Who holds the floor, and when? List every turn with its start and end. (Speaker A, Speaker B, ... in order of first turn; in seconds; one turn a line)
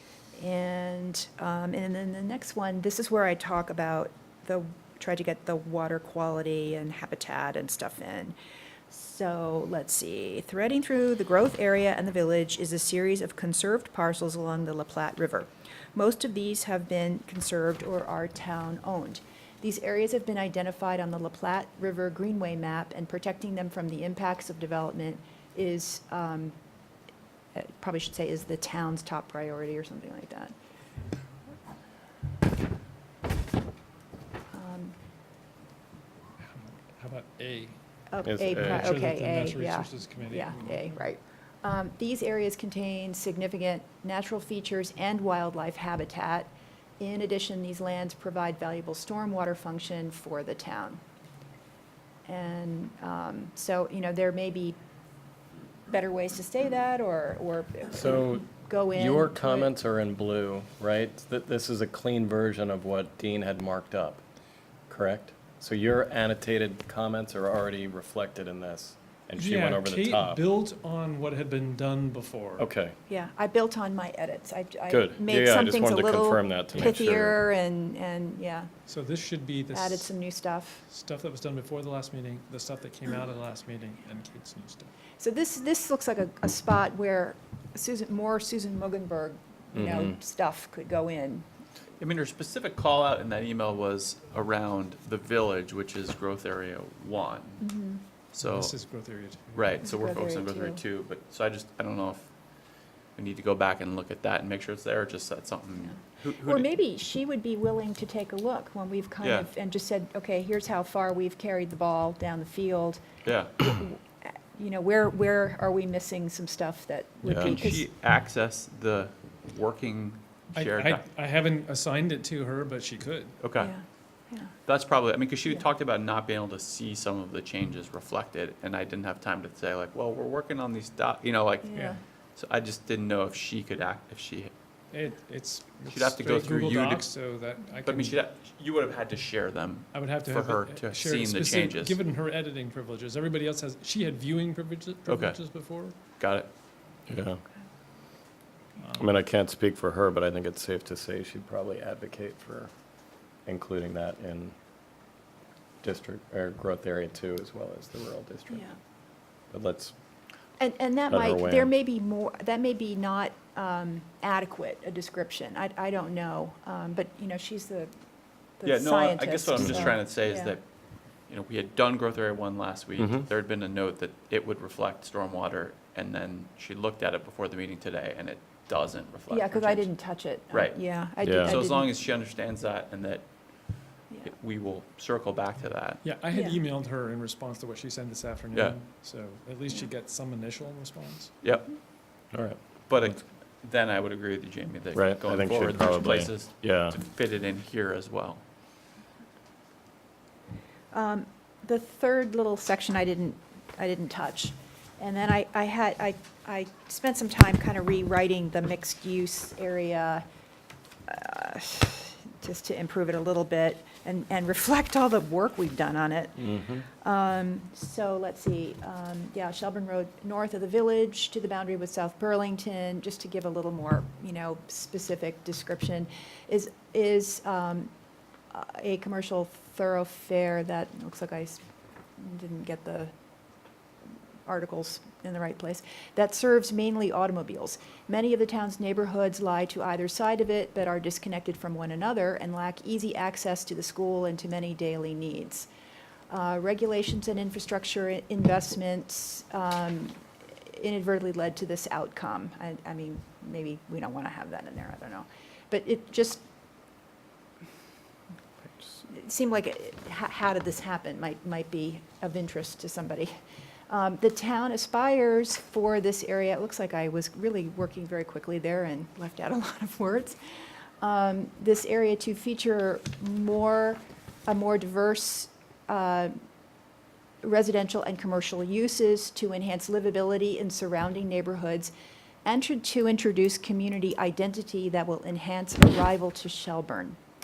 Speaker A: 0.4-8.4
Speaker A: 8.9-26.6
Speaker A: 27.6-30.5
Speaker A: 34.5-35.0
Speaker B: 36.4-37.8
Speaker A: 38.1-51.0
Speaker C: 38.2-39.0
Speaker B: 38.5-40.9
Speaker A: 52.3-54.8
Speaker A: 55.9-59.7
Speaker C: 57.9-64.2
Speaker C: 64.9-70.4
Speaker B: 69.4-72.7
Speaker C: 72.6-73.0
Speaker A: 73.1-78.7
Speaker C: 74.9-77.4
Speaker B: 78.9-80.1
Speaker A: 79.7-80.8
Speaker B: 80.9-84.9
Speaker A: 85.2-91.5
Speaker C: 89.7-90.2
Speaker D: 92.0-97.7
Speaker A: 97.6-98.0
Speaker D: 98.3-98.7
Speaker B: 98.4-99.8
Speaker D: 99.5-102.3
Speaker A: 99.8-100.8
Speaker D: 103.2-106.7
Speaker A: 105.8-113.0
Speaker D: 109.2-109.5
Speaker D: 113.2-113.5
Speaker A: 113.6-117.9
Speaker C: 117.2-117.6
Speaker D: 117.4-121.0
Speaker B: 120.5-123.3
Speaker D: 123.4-123.7
Speaker A: 123.6-124.5
Speaker D: 124.7-134.5
Speaker A: 131.7-132.0
Speaker B: 134.9-138.2
Speaker D: 135.9-137.1
Speaker D: 137.8-142.0
Speaker B: 139.9-146.0
Speaker D: 145.1-145.4
Speaker D: 146.2-146.5
Speaker C: 147.1-147.4
Speaker B: 148.8-149.1
Speaker C: 149.0-152.7
Speaker C: 153.5-154.5
Speaker C: 155.8-158.7
Speaker A: 158.5-158.8
Speaker C: 159.5-159.9
Speaker A: 160.6-167.9
Speaker C: 161.1-161.7
Speaker A: 168.6-170.6
Speaker D: 168.6-170.6
Speaker C: 169.6-169.8
Speaker D: 171.3-179.9
Speaker C: 173.0-173.2
Speaker A: 179.3-181.9
Speaker D: 180.5-180.9
Speaker C: 181.2-181.6
Speaker D: 181.4-183.3
Speaker D: 184.2-186.0
Speaker B: 186.0-191.3
Speaker A: 186.3-186.6
Speaker D: 191.4-191.7
Speaker C: 192.3-192.6
Speaker D: 192.9-198.4
Speaker C: 194.9-197.0
Speaker A: 200.9-210.2
Speaker A: 211.1-227.9
Speaker C: 216.4-216.9
Speaker A: 228.5-231.6
Speaker A: 232.2-233.1
Speaker A: 234.5-245.7
Speaker A: 246.3-256.4
Speaker A: 259.0-263.3
Speaker A: 263.9-270.4
Speaker A: 271.0-276.3
Speaker A: 277.4-281.9
Speaker A: 282.4-287.2